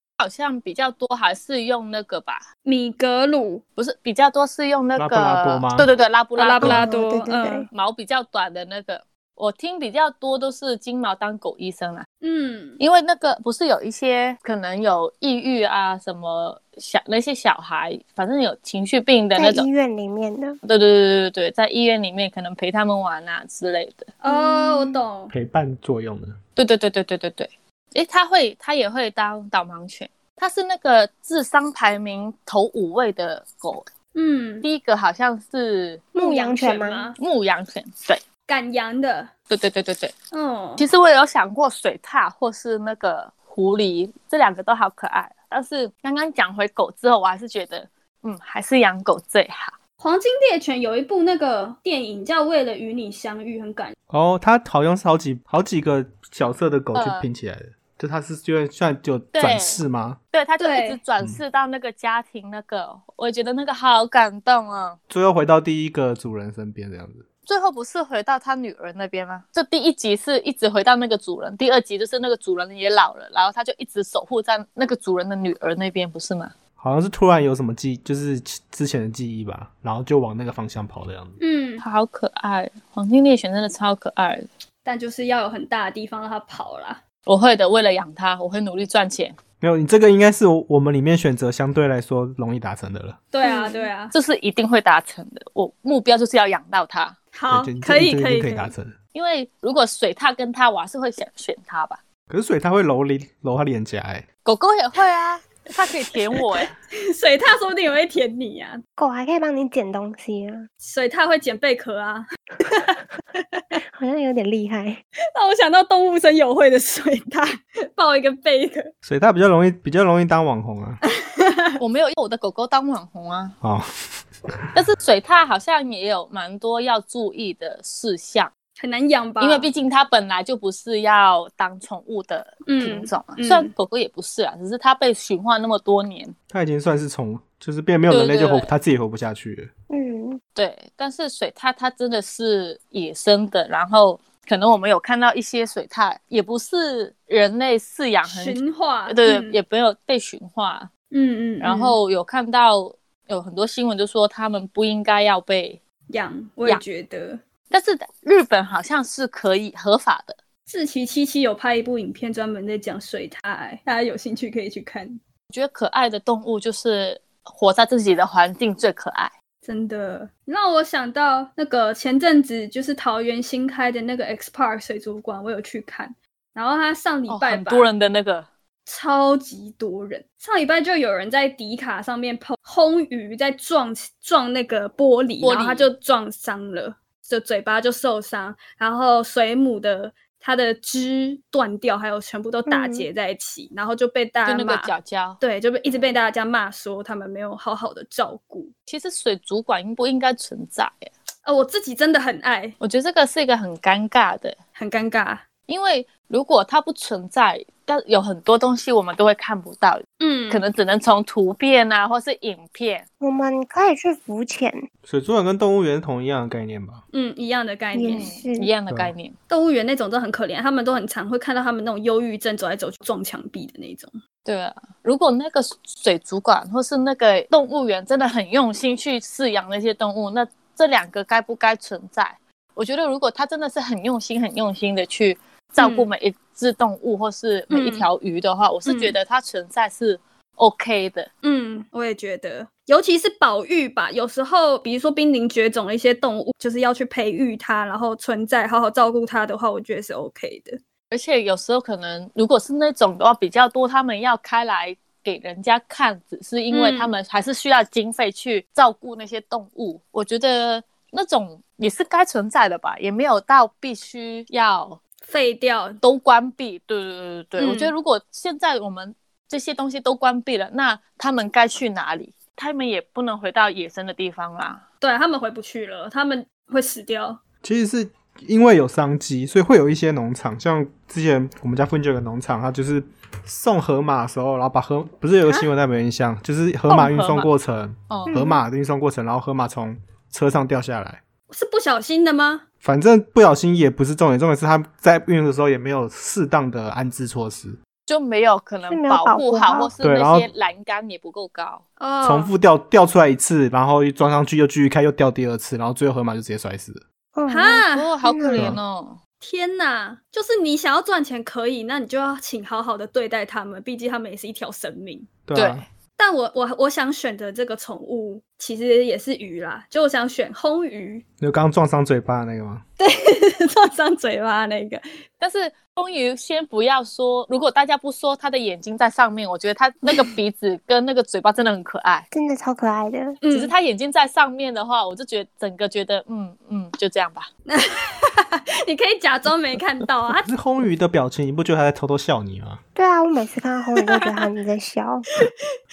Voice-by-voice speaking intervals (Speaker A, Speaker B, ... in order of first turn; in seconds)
Speaker A: 0.2-2.5, 3.8-6.9, 7.7-12.1, 12.8-19.7, 20.6-24.1, 26.6-33.9, 34.6-36.0, 37.2-38.2, 39.5-40.1, 40.8-49.8, 56.9-57.3, 59.3-65.0, 67.5-76.5, 81.8-84.5, 87.3-89.4, 94.1-97.2, 99.1-102.0, 104.5-106.7, 121.8-123.6, 124.7-128.5, 129.4-136.3, 138.1-138.7, 140.6-150.9, 151.6-155.8, 157.7-160.4, 165.5-169.3, 177.3-178.5, 185.4-185.9, 194.4-195.4, 198.9-201.1, 202.8-204.6, 205.7-213.1, 218.1-219.3, 224.4-241.3, 251.1-265.0, 266.0-274.8, 286.9-287.5, 288.1-288.4, 298.1-301.8, 307.9-309.2, 315.5-315.8, 325.4-332.3, 333.5-337.5
Speaker B: 2.6-3.6, 6.4-7.7, 12.2-12.8, 24.2-25.3, 34.1-34.7, 36.2-37.2, 38.5-39.3, 40.3-40.9, 50.0-54.0, 60.6-61.0, 81.4-81.8, 84.8-87.0, 93.3-94.1, 97.3-98.7, 107.1-108.8, 110.8-113.8, 115.3-118.9, 121.1-121.8, 128.8-129.7, 132.7-133.7, 148.3-149.6, 151.1-152.0, 156.1-157.4, 160.7-165.2, 169.7-177.9, 178.9-198.7, 201.4-202.8, 204.8-205.4, 210.2-210.6, 217.1-218.3, 219.5-224.2, 235.8-236.1, 237.7-238.1, 238.9-239.2, 241.4-250.8, 256.7-257.1, 265.2-266.0, 267.6-267.9, 275.0-277.4, 291.5-292.6, 302.0-302.5, 307.5-308.1, 309.4-315.3, 316.2-321.2, 323.0-325.0, 333.4-333.7, 337.7-340.5, 344.0-344.4
Speaker C: 5.0-5.9, 25.3-26.4, 54.1-60.2, 65.1-67.2, 76.8-81.4, 89.6-93.2, 97.5-99.0, 102.3-104.3, 119.0-121.0, 136.5-139.7, 215.1-217.0, 277.6-291.2, 292.8-297.8, 300.0-300.5, 302.2-307.0, 308.5-308.8, 315.4-315.9, 321.4-322.8, 340.4-342.8
Speaker D: 6.6-7.7, 19.4-20.6, 24.3-25.0, 36.1-37.1, 93.4-93.9, 109.0-110.7, 114.0-115.0, 139.9-140.4, 192.7-193.1, 213.2-214.9, 217.9-218.7, 288.3-288.6, 298.9-299.9, 307.4-308.8, 332.3-333.4, 343.0-345.3